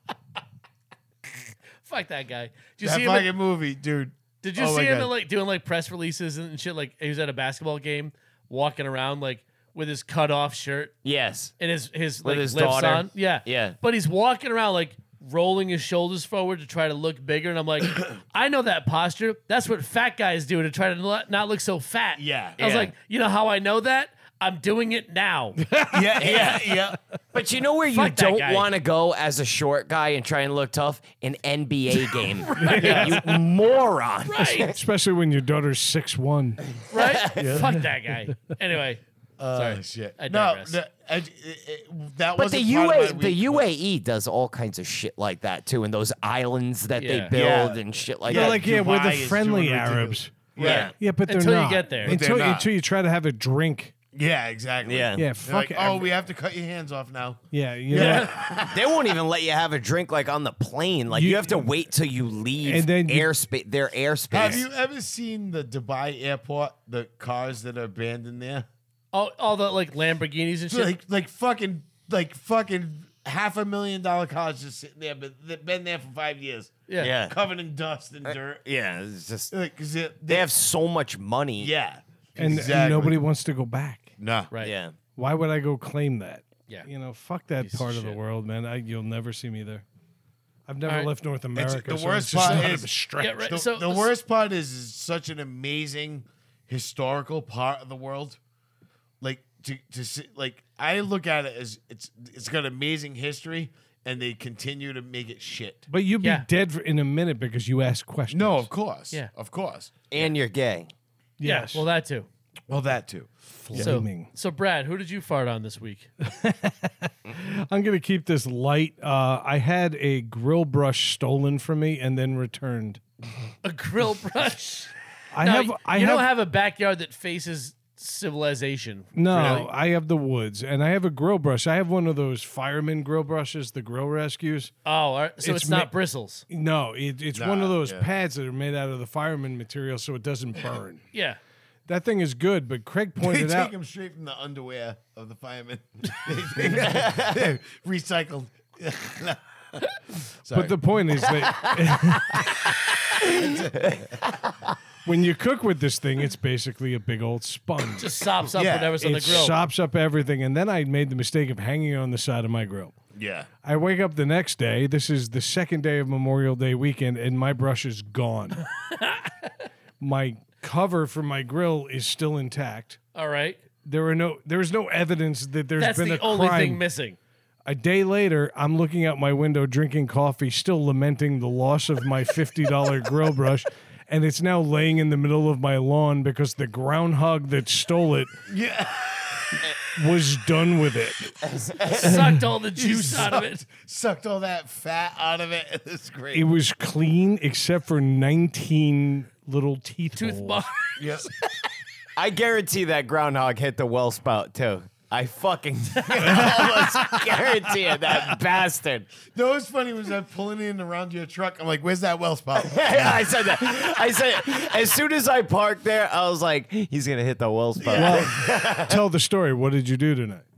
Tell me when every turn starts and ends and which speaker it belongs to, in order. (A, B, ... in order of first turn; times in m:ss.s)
0:01.8-0:03.3 A
0:02.8-0:05.1 B
0:04.4-0:11.0 A
0:11.0-0:11.5 C
0:11.6-0:25.6 A
0:12.2-0:13.8 C
0:22.2-0:22.6 B
0:22.6-0:22.9 C
0:25.7-0:26.4 D
0:25.9-0:27.0 B
0:26.2-0:26.6 C
0:27.3-0:34.8 C
0:27.9-0:28.7 A
0:32.4-0:33.3 A
0:32.6-0:33.4 D
0:34.3-0:34.8 A
0:34.7-0:36.6 D
0:36.9-0:37.4 C
0:36.9-0:39.0 A
0:37.4-0:37.7 B
0:39.4-0:43.7 B
0:39.5-0:40.8 A
0:42.4-0:48.6 C
0:47.0-0:47.3 A
0:47.3-0:50.9 B
0:48.3-0:53.9 D
0:50.6-0:52.2 A
0:50.6-0:50.9 C
0:52.0-0:52.7 B
0:54.1-0:59.1 B
0:54.8-0:55.3 C
0:55.2-0:56.1 D
0:57.5-0:58.3 D
0:57.9-0:58.3 A
0:58.7-1:04.6 C
1:01.1-1:01.7 D
1:02.6-1:03.3 D
1:04.3-1:08.7 B
1:09.1-1:11.0 A
1:10.7-1:18.6 B
1:16.9-1:17.2 A
1:17.0-1:17.4 C
1:18.3-1:19.5 C
1:19.5-1:20.5 B
1:20.3-1:21.7 C
1:21.6-1:23.2 B
1:22.4-1:24.1 D
1:24.2-1:24.5 B
1:24.6-1:25.0 C
1:25.2-1:29.8 D
1:27.6-1:28.2 A
1:30.7-1:33.5 D
1:31.6-1:32.9 B
1:32.4-1:34.1 A
1:33.5-1:38.4 B
1:39.2-1:45.9 B
1:45.9-1:48.7 D
1:48.3-1:50.2 B
1:50.1-1:50.9 C
1:51.4-1:51.8 D
1:51.4-1:52.3 A
1:52.7-1:54.0 B
1:53.6-1:54.3 D
1:53.7-1:56.1 A
1:56.2-2:03.0 D
2:03.6-2:09.7 A
2:05.3-2:06.3 D
2:09.2-2:14.7 D
2:09.3-2:09.7 B
2:14.8-2:16.4 A
2:15.4-2:15.9 D
2:16.5-2:21.1 D
2:17.3-2:18.1 B
2:21.1-2:21.4 A
2:21.9-2:23.7 D
2:23.2-2:30.8 B
2:26.9-2:27.2 C
2:30.5-2:32.5 D
2:33.2-2:34.2 B
2:33.2-2:34.5 C
2:35.0-2:38.4 D
2:38.0-2:39.6 A
2:38.5-2:39.5 B
2:39.0-2:42.9 D
2:43.2-2:43.5 B
2:43.6-2:48.6 D
2:48.9-2:49.5 A
2:50.0-2:53.0 D
2:53.2-2:53.6 A
2:53.8-2:56.8 D
2:55.8-2:57.2 A
2:57.7-3:08.3 D
3:08.5-3:09.7 B
3:09.9-3:11.4 D
3:11.5-3:12.1 C
3:11.8-3:13.6 A
3:11.9-3:12.4 D
3:12.7-3:16.5 B
3:16.3-3:20.6 D
3:20.2-3:21.0 A
3:21.0-3:21.3 B
3:22.2-3:29.1 C
3:26.2-3:27.0 D
3:29.3-3:33.3 B
3:32.6-3:39.0 C
3:37.8-3:38.4 B
3:38.0-3:40.4 D